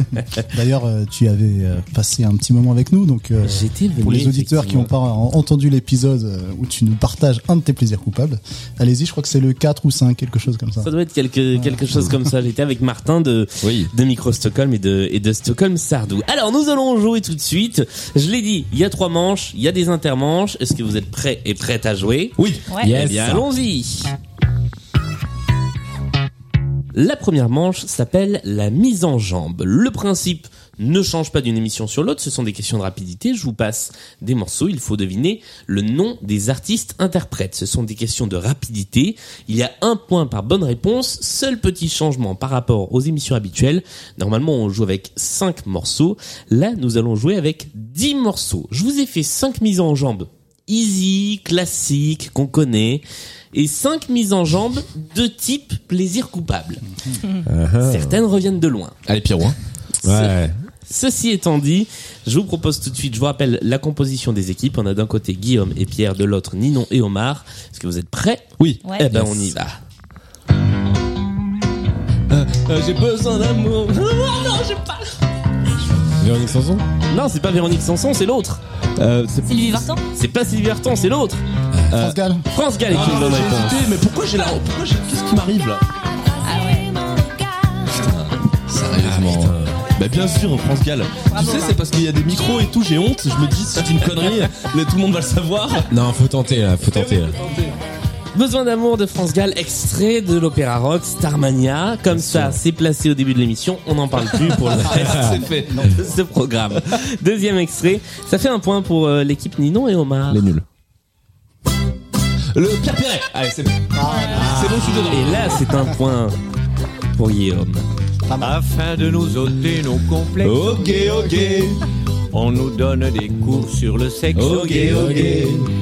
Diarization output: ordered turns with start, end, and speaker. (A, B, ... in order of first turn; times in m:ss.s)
0:00.5-0:10.9 A
0:03.4-0:04.9 B
0:10.8-0:24.1 B
0:13.6-0:13.9 C
0:22.4-0:23.4 C
0:22.7-0:22.9 D
0:26.9-0:56.8 B
0:57.5-0:57.9 E
0:57.8-0:59.0 B
0:59.1-0:59.6 C
1:00.0-1:00.3 B
1:00.1-1:00.5 E
1:00.9-1:09.8 B
1:08.6-1:09.5 C
1:12.3-1:15.0 C
1:16.2-1:16.8 E
1:17.1-1:18.6 B
1:19.0-1:19.9 C
1:19.4-1:20.0 D
1:20.1-1:21.4 B
1:21.8-1:22.2 C
1:21.9-1:22.5 A
1:22.5-1:23.9 B
1:22.9-1:25.8 C
1:26.4-1:27.1 D
1:28.0-1:35.9 C
1:29.0-1:29.7 E
1:31.3-1:31.8 D
1:35.9-1:37.4 E
1:36.8-1:37.7 C
1:38.3-1:45.3 B
1:42.1-1:42.6 C
1:44.7-1:45.9 C
1:45.4-1:46.1 A
1:45.9-1:50.4 B
1:50.3-1:50.6 C
1:52.5-1:55.6 C
1:53.9-1:55.0 A
1:55.1-1:56.4 B
1:57.2-1:57.8 B
1:58.3-1:58.6 A
1:58.4-2:01.6 F
2:00.4-2:01.7 C
2:02.3-2:05.2 F
2:04.3-2:05.5 C
2:04.4-2:05.4 B
2:04.8-2:05.7 E